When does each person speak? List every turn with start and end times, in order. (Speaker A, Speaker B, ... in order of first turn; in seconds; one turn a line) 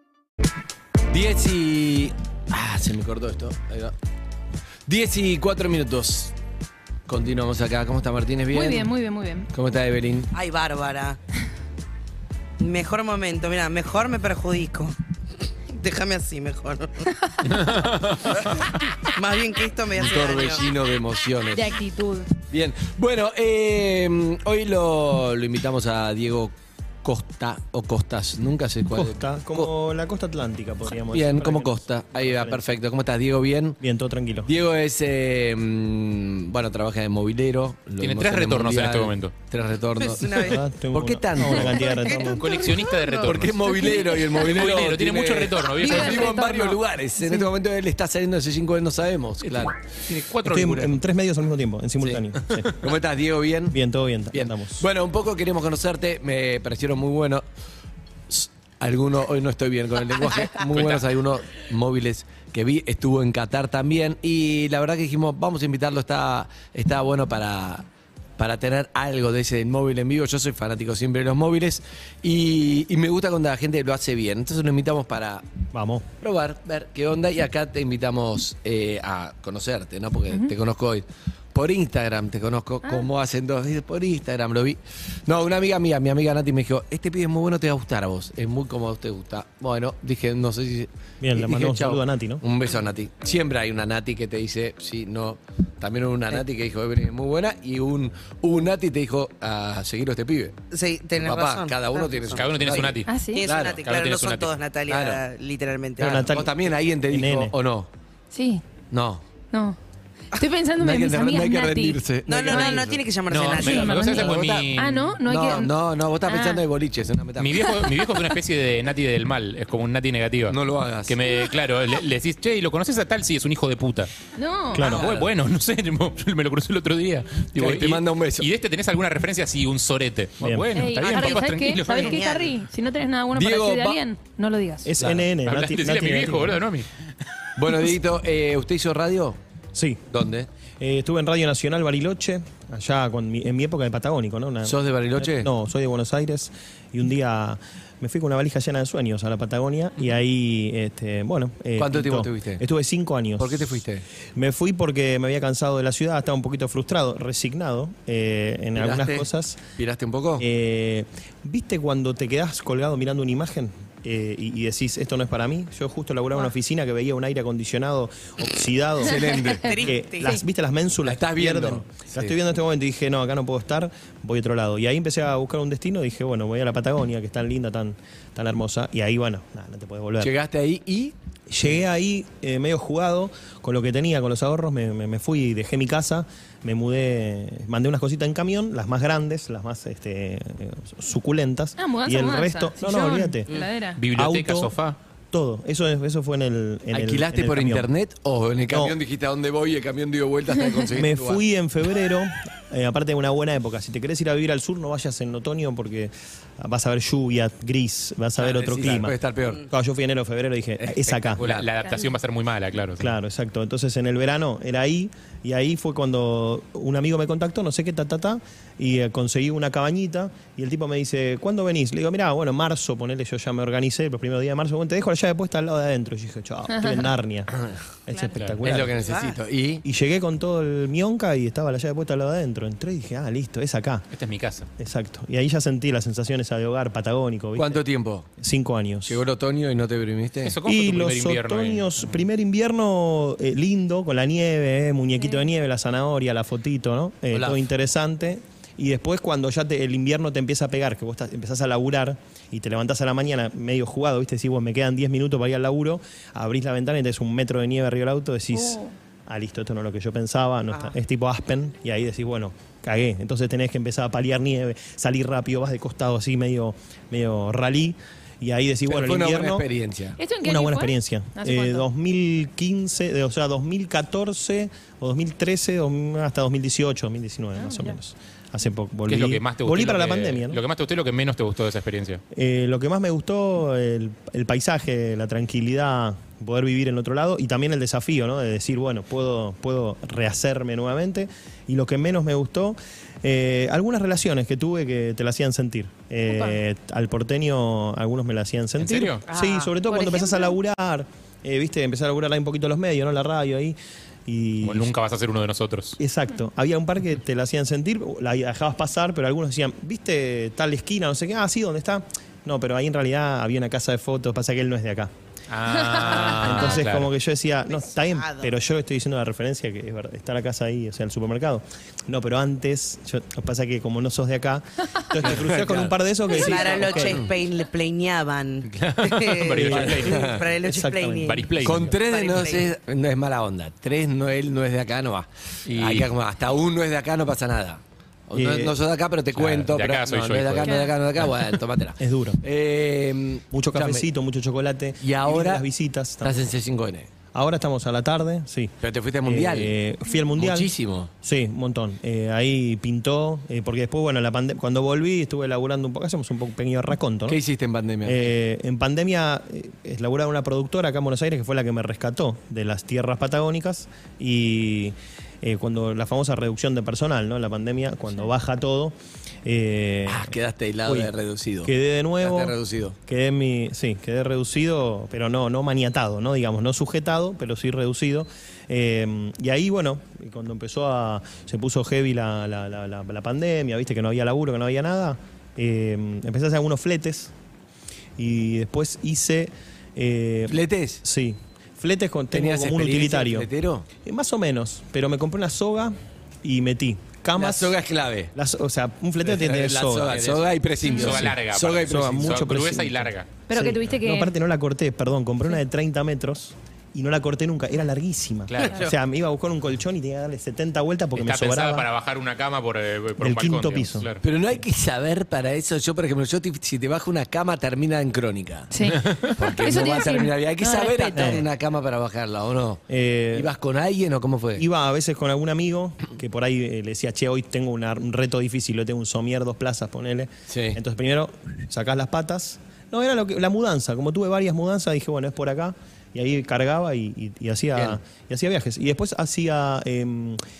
Speaker A: 1.1-3.9
Speaker A: 4.9-6.3
Speaker A: 7.1-8.9
Speaker B: 8.5-9.5
Speaker A: 9.5-10.3
Speaker C: 10.3-11.2
Speaker C: 12.6-15.0
Speaker C: 15.7-17.1
Speaker D: 17.5-19.1
Speaker C: 18.3-18.6
Speaker C: 19.1-20.6
Speaker A: 19.9-21.8
Speaker B: 21.5-22.3
Speaker A: 22.5-26.5
Speaker A: 27.0-29.7
Speaker E: 28.9-32.6
Speaker A: 30.9-33.8
Speaker E: 33.8-34.5
Speaker A: 34.5-41.9
Speaker D: 38.0-39.3
Speaker C: 40.0-40.6
Speaker E: 40.3-42.5
Speaker B: 41.5-42.4
Speaker D: 42.2-46.4
Speaker A: 43.1-49.8
Speaker B: 43.7-44.3
Speaker B: 45.8-47.5
Speaker D: 50.1-51.0
Speaker E: 50.4-52.7
Speaker A: 52.0-53.8
Speaker E: 53.7-54.8
Speaker A: 54.3-57.4
Speaker A: 58.3-67.8
Speaker D: 60.6-61.1
Speaker A: 68.4-75.4
Speaker E: 75.7-76.0
Speaker A: 76.2-100.5
Speaker E: 91.2-92.4
Speaker C: 100.7-102.4
Speaker A: 101.2-103.8
Speaker D: 102.3-103.1
Speaker B: 103.1-103.4
Speaker C: 103.3-106.3
Speaker D: 103.8-104.5
Speaker A: 104.9-105.2
Speaker E: 106.0-107.5
Speaker A: 106.0-107.9
Speaker B: 108.3-108.6
Speaker A: 108.9-109.2
Speaker B: 109.5-109.8
Speaker B: 110.3-112.8
Speaker A: 110.8-113.0
Speaker C: 112.3-114.5
Speaker D: 113.3-115.2
Speaker B: 113.5-115.7
Speaker A: 113.6-117.8
Speaker B: 116.2-116.6
Speaker D: 117.4-124.1
Speaker B: 117.6-118.2
Speaker A: 120.5-121.2
Speaker B: 124.3-125.0
Speaker E: 124.7-125.1
Speaker D: 124.8-132.2
Speaker A: 124.8-125.3
Speaker A: 127.5-128.5
Speaker E: 130.4-130.7
Speaker B: 130.7-134.9
Speaker C: 131.0-132.6
Speaker A: 133.3-134.0
Speaker E: 134.8-136.6
Speaker A: 135.0-135.3
Speaker D: 135.4-136.9
Speaker A: 137.6-139.4
Speaker E: 139.7-140.0
Speaker A: 140.1-140.5
Speaker E: 140.8-153.8
Speaker A: 144.7-145.5
Speaker A: 151.8-152.6
Speaker A: 153.4-154.0
Speaker E: 154.3-159.6
Speaker A: 158.8-160.5
Speaker E: 160.4-180.3
Speaker A: 169.0-169.9
Speaker C: 169.6-170.4
Speaker A: 171.0-172.3
Speaker A: 180.2-181.1
Speaker E: 181.5-193.5
Speaker B: 191.8-194.0
Speaker D: 194.0-194.9
Speaker E: 194.1-194.7
Speaker E: 195.3-197.9
Speaker A: 196.9-201.4
Speaker E: 198.7-199.0
Speaker E: 200.9-209.1
Speaker A: 208.4-209.7
Speaker E: 209.7-211.4
Speaker A: 210.8-211.7
Speaker D: 211.3-213.1
Speaker B: 211.8-212.1
Speaker E: 213.0-227.5
Speaker B: 226.7-227.1
Speaker E: 228.1-228.9
Speaker A: 228.6-229.8
Speaker C: 228.9-229.3
Speaker E: 229.8-234.1
Speaker D: 234.1-234.7
Speaker E: 234.8-237.8
Speaker A: 237.6-238.3
Speaker E: 238.4-239.2
Speaker A: 239.1-240.6
Speaker D: 240.4-242.0
Speaker E: 240.6-269.7
Speaker A: 247.3-247.6
Speaker B: 258.5-258.9
Speaker A: 268.9-270.2
Speaker B: 270.2-271.9
Speaker E: 270.4-280.6
Speaker B: 277.6-278.0
Speaker D: 279.1-282.2
Speaker E: 282.3-304.9
Speaker B: 296.2-296.6
Speaker D: 298.8-299.2
Speaker C: 299.3-299.7
Speaker B: 299.8-300.6
Speaker D: 304.6-306.0
Speaker E: 306.0-315.1
Speaker D: 315.5-317.1
Speaker B: 315.7-316.6
Speaker E: 316.3-327.2
Speaker C: 318.1-318.5
Speaker A: 325.2-325.9
Speaker C: 326.3-332.7
Speaker A: 326.8-327.3
Speaker D: 328.7-330.4
Speaker A: 329.7-330.4
Speaker E: 329.7-331.6
Speaker D: 331.2-331.9
Speaker A: 331.6-344.0
Speaker D: 335.7-336.1
Speaker E: 338.3-338.8
Speaker D: 339.4-340.8
Speaker B: 340.6-340.9
Speaker E: 342.0-342.4
Speaker E: 343.5-346.5
Speaker A: 345.0-345.6
Speaker A: 346.2-347.1
Speaker E: 347.3-348.7
Speaker A: 348.8-349.7
Speaker E: 349.2-357.4
Speaker A: 350.4-351.1
Speaker A: 357.3-358.3
Speaker E: 358.0-371.1
Speaker A: 370.1-372.9
Speaker E: 371.6-387.3
Speaker E: 388.2-393.5
Speaker A: 390.5-391.0
Speaker A: 392.3-393.9
Speaker E: 394.0-397.8
Speaker A: 397.4-398.3
Speaker E: 398.3-400.4
Speaker A: 399.2-402.5
Speaker D: 400.8-403.3
Speaker E: 401.0-411.9
Speaker B: 403.5-404.3
Speaker D: 408.5-408.8
Speaker C: 408.6-408.9
Speaker D: 411.1-414.2
Speaker E: 413.2-414.1
Speaker A: 414.2-422.8
Speaker B: 418.7-421.4
Speaker E: 421.1-421.4
Speaker E: 422.9-423.5
Speaker A: 423.3-424.7
Speaker E: 424.6-440.4
Speaker A: 430.5-430.8